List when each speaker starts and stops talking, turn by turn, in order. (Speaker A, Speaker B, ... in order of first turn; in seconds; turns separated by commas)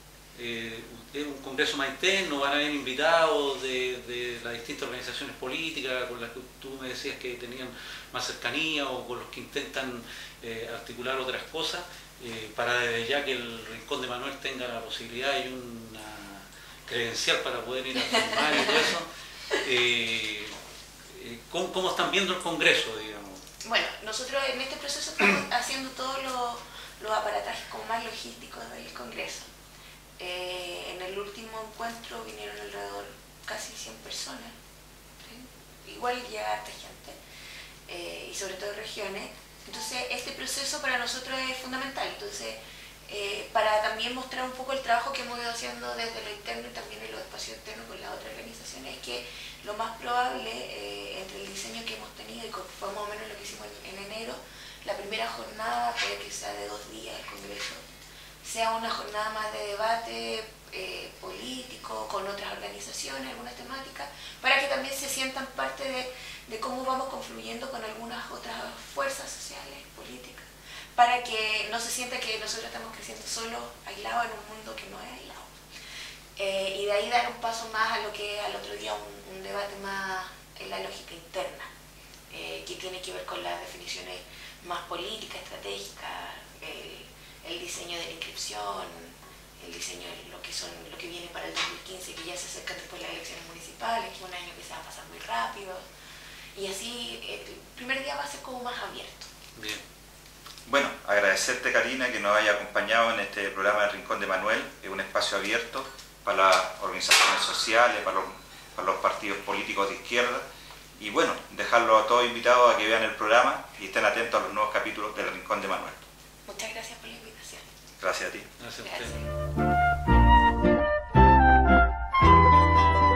Speaker A: 0.3-20.6, Speaker A: 21.1-23.4, Speaker B: 23.6-29.5, Speaker B: 30.2-34.5, Speaker B: 35.2-37.2, Speaker B: 37.9-57.8, Speaker B: 58.4-75.5, Speaker B: 76.4-81.7, Speaker B: 82.3-95.8, Speaker B: 96.5-99.3, Speaker A: 99.6-99.8, Speaker C: 100.7-110.5, Speaker C: 111.0-116.0, Speaker B: 116.5-117.6, Speaker C: 118.0-118.5, Speaker A: 118.6-119.2, Speaker B: 118.8-119.3